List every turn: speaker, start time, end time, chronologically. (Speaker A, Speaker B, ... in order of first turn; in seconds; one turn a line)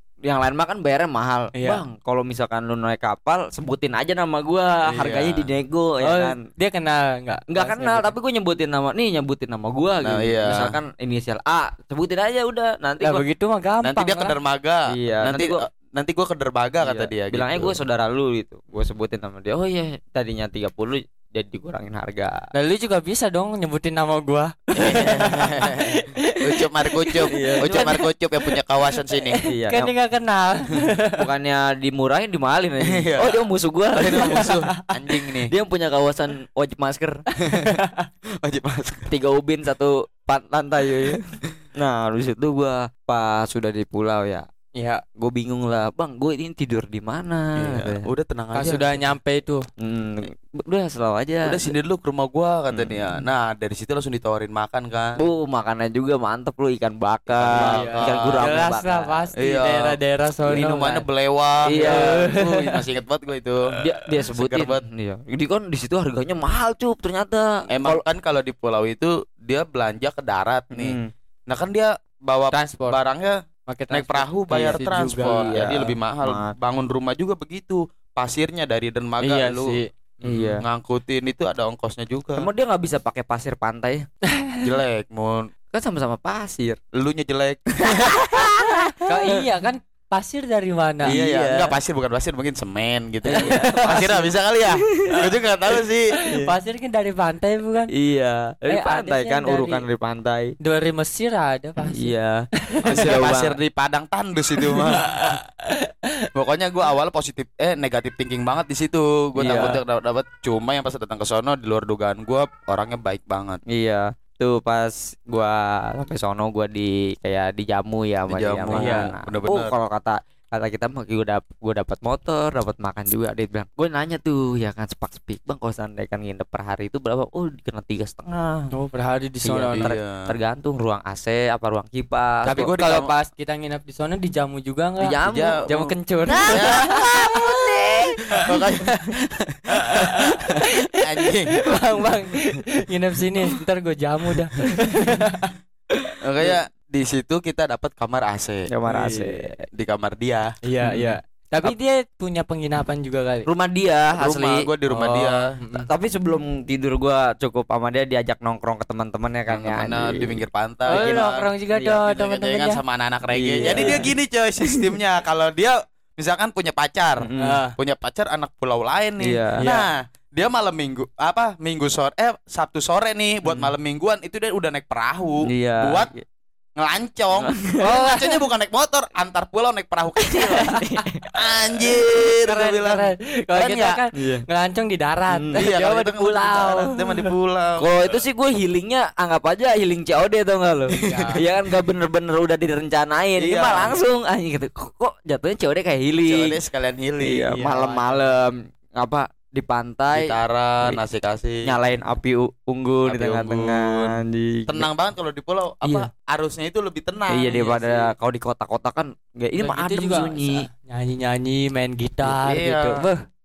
Speaker A: 0.2-6.4
Speaker B: 1.5-1.8
Speaker C: 4.9-5.5
Speaker B: 6.0-8.1
Speaker A: 7.5-13.2
Speaker C: 10.0-10.8
Speaker B: 13.0-14.3
Speaker C: 13.8-17.8
Speaker A: 14.9-15.6
Speaker A: 16.8-22.5
Speaker B: 22.5-28.5
Speaker A: 24.7-25.3
Speaker C: 24.8-29.4
Speaker A: 27.3-27.9
Speaker B: 29.1-31.3
Speaker A: 29.4-29.9
Speaker A: 31.1-34.5
Speaker C: 32.8-35.5
Speaker B: 34.1-34.9
Speaker A: 35.5-37.2
Speaker B: 37.4-38.1
Speaker C: 38.4-39.1
Speaker A: 39.1-44.5
Speaker B: 44.8-45.0
Speaker A: 45.2-48.1
Speaker C: 47.6-49.0
Speaker B: 48.5-49.6
Speaker A: 49.8-51.7
Speaker C: 51.4-55.2
Speaker A: 52.7-53.0
Speaker A: 55.2-59.1
Speaker C: 57.3-58.6
Speaker B: 57.5-61.0
Speaker C: 59.4-63.7
Speaker A: 61.6-62.3
Speaker B: 61.7-62.8
Speaker A: 63.8-68.0
Speaker C: 64.3-64.8
Speaker C: 67.7-71.0
Speaker A: 70.7-71.1
Speaker C: 71.5-73.4
Speaker B: 72.5-73.0
Speaker B: 73.7-75.8
Speaker C: 73.9-82.5
Speaker A: 74.5-76.5
Speaker B: 79.2-80.5
Speaker A: 80.2-80.6
Speaker A: 82.4-84.1
Speaker B: 84.4-84.6
Speaker C: 84.6-85.5
Speaker A: 85.7-86.8
Speaker C: 86.9-88.2
Speaker A: 87.8-89.4
Speaker B: 89.0-91.2
Speaker A: 91.0-91.8
Speaker C: 91.0-96.1
Speaker A: 93.2-94.1
Speaker B: 93.4-94.3
Speaker A: 94.8-95.2
Speaker B: 96.3-97.9
Speaker A: 97.9-100.5
Speaker B: 98.7-99.8
Speaker B: 100.6-102.1
Speaker A: 101.9-103.6
Speaker B: 102.7-103.1
Speaker C: 102.9-105.3
Speaker B: 104.7-105.9
Speaker C: 106.3-113.6
Speaker A: 109.4-109.8
Speaker B: 109.4-109.8
Speaker A: 113.7-128.7
Speaker C: 118.3-119.7
Speaker B: 118.7-119.1
Speaker B: 128.7-129.9
Speaker A: 129.4-132.7
Speaker C: 129.8-130.3
Speaker B: 132.4-139.0
Speaker C: 132.5-133.1
Speaker A: 135.0-135.7
Speaker C: 135.2-135.8
Speaker A: 136.3-138.2
Speaker C: 136.5-137.5
Speaker C: 138.4-141.7
Speaker B: 139.9-145.5
Speaker C: 146.2-148.7
Speaker A: 148.7-149.6
Speaker B: 148.9-149.5
Speaker C: 149.7-150.5
Speaker B: 150.6-153.5
Speaker A: 150.8-151.7
Speaker A: 153.5-154.7
Speaker C: 154.2-155.4
Speaker B: 154.9-155.9
Speaker A: 155.8-162.0
Speaker C: 159.5-161.5
Speaker B: 160.9-162.8
Speaker C: 162.0-176.1
Speaker A: 163.3-164.1
Speaker B: 163.6-164.1
Speaker A: 167.2-167.6
Speaker B: 167.4-167.8
Speaker A: 169.2-169.8
Speaker A: 175.4-176.2
Speaker C: 176.8-180.7
Speaker A: 177.4-177.9
Speaker B: 177.8-178.4
Speaker B: 180.5-181.0
Speaker A: 180.5-181.2
Speaker C: 181.3-184.0
Speaker B: 182.4-187.3
Speaker A: 184.1-184.4
Speaker A: 185.3-185.6
Speaker C: 185.5-188.2
Speaker A: 187.8-196.6
Speaker B: 191.0-191.4
Speaker C: 191.0-191.4
Speaker C: 193.4-194.0
Speaker C: 196.2-197.5
Speaker A: 197.2-201.0
Speaker B: 197.5-198.3
Speaker C: 200.1-201.7
Speaker A: 201.6-204.9
Speaker C: 203.1-204.2
Speaker C: 204.7-208.1
Speaker A: 207.3-210.7
Speaker B: 209.6-213.2
Speaker C: 212.2-213.0